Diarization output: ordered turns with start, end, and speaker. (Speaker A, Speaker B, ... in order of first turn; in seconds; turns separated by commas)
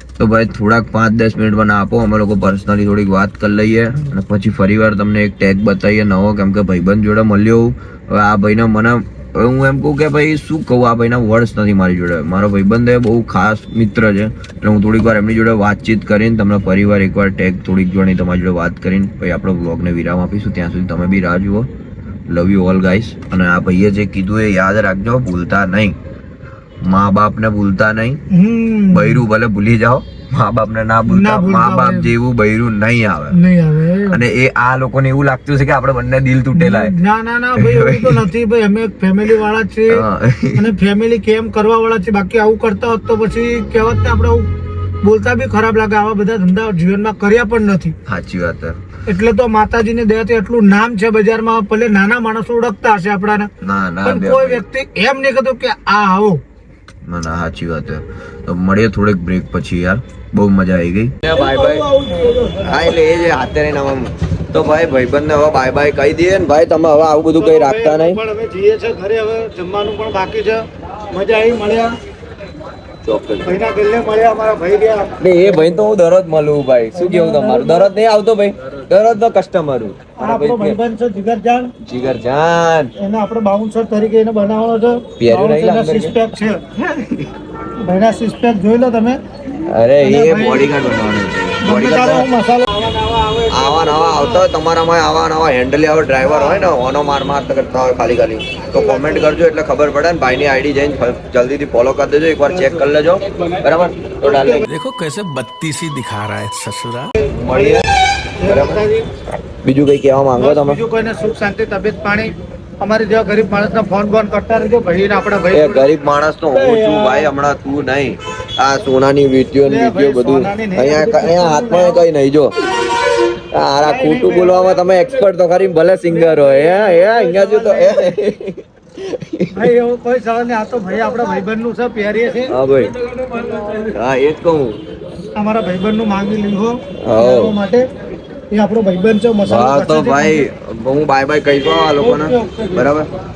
Speaker A: 0.2-21.7, Speaker A: 22.3-26.0, Speaker A: 26.9-28.2, Speaker B: 28.3-29.2, Speaker A: 28.9-33.4, Speaker B: 31.1-32.1, Speaker B: 33.3-34.2, Speaker A: 34.1-36.9, Speaker B: 36.5-40.0, Speaker A: 37.6-38.2, Speaker A: 39.9-40.7, Speaker B: 40.6-44.5, Speaker B: 45.0-48.0, Speaker A: 48.1-48.8, Speaker B: 49.1-53.5, Speaker A: 53.6-54.6, Speaker B: 54.0-56.4, Speaker A: 57.1-61.9, Speaker B: 61.3-62.9, Speaker A: 62.6-68.2, Speaker B: 67.4-72.0, Speaker A: 73.0-73.6, Speaker B: 73.5-75.2, Speaker A: 75.2-80.8, Speaker B: 77.0-77.9, Speaker B: 80.2-81.7, Speaker A: 81.8-82.9, Speaker B: 83.0-86.7, Speaker A: 85.2-86.2, Speaker A: 86.8-87.3, Speaker B: 87.8-89.2, Speaker A: 89.7-92.3, Speaker B: 90.0-91.0, Speaker B: 91.6-94.4, Speaker A: 93.5-104.7, Speaker B: 104.2-104.6, Speaker C: 104.7-107.1, Speaker B: 107.2-107.8, Speaker A: 107.4-107.9, Speaker B: 108.4-109.1, Speaker A: 108.5-108.8, Speaker A: 109.6-110.8, Speaker B: 110.4-115.9, Speaker A: 115.5-122.5, Speaker B: 116.5-117.3, Speaker B: 119.7-122.1, Speaker A: 123.5-129.7, Speaker B: 123.8-124.6, Speaker B: 126.2-128.2, Speaker B: 129.5-132.5, Speaker A: 132.5-132.9, Speaker A: 133.6-134.8, Speaker B: 135.4-137.8, Speaker A: 137.0-137.6, Speaker B: 138.5-140.4, Speaker A: 139.4-143.1, Speaker B: 142.0-142.9